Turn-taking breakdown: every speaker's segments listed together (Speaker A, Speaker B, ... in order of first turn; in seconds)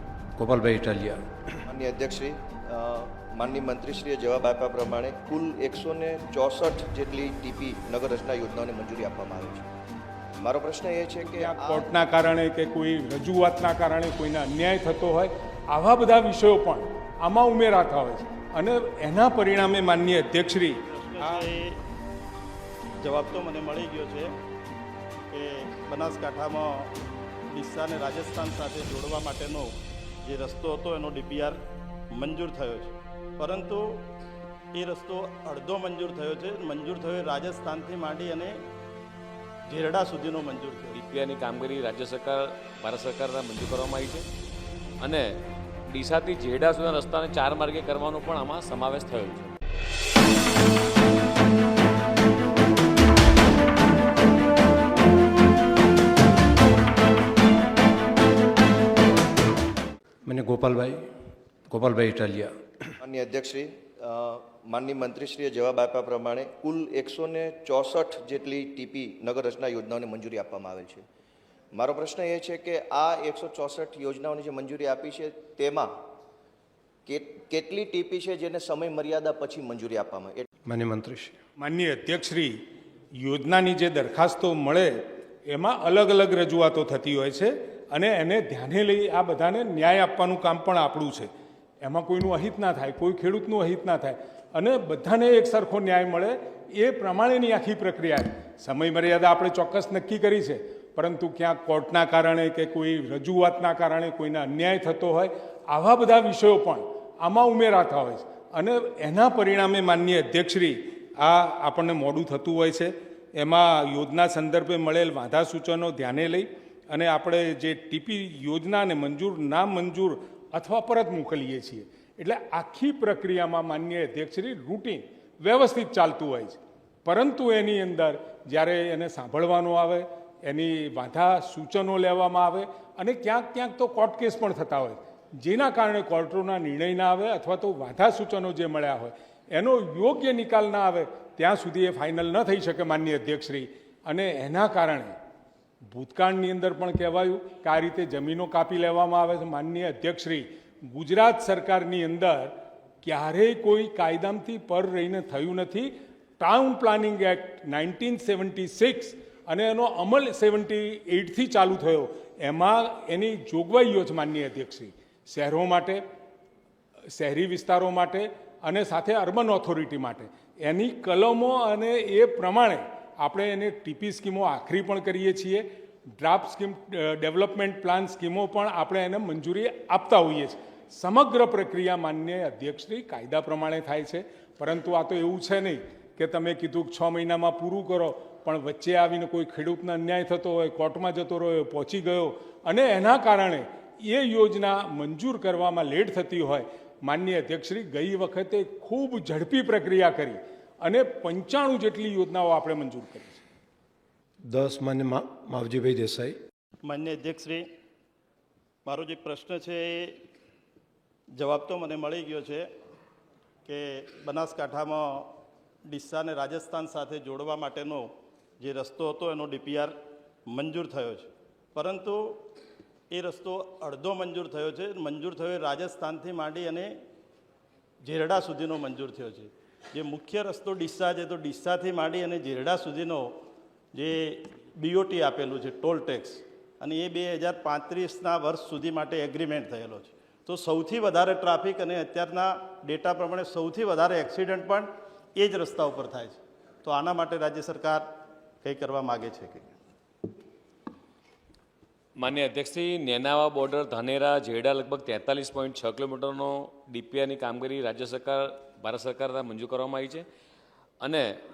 Speaker A: 0.4-1.2, 60.2-61.1, 61.7-62.5, 80.7-81.3, 204.5-206.3
Speaker B: 1.7-9.7, 10.4-11.8, 63.0-71.0, 71.7-75.9, 77.0-80.4
Speaker C: 11.4-21.4, 81.6-82.5, 83.2-91.3, 91.8-145.1, 145.9-166.0, 167.1-203.4
Speaker D: 20.9-21.8, 23.0-24.3, 25.3-26.9, 27.5-34.1, 34.7-38.6, 39.7-41.0, 206.8-207.7, 208.8-210.2, 211.3-212.7, 213.6-215.3, 215.8-222.6, 223.1-226.9, 228.0-233.3, 233.9-248.1, 248.6-249.8
Speaker E: 40.9-44.3, 45.0-45.4, 45.9-49.5, 252.2-260.2, 261.0-261.4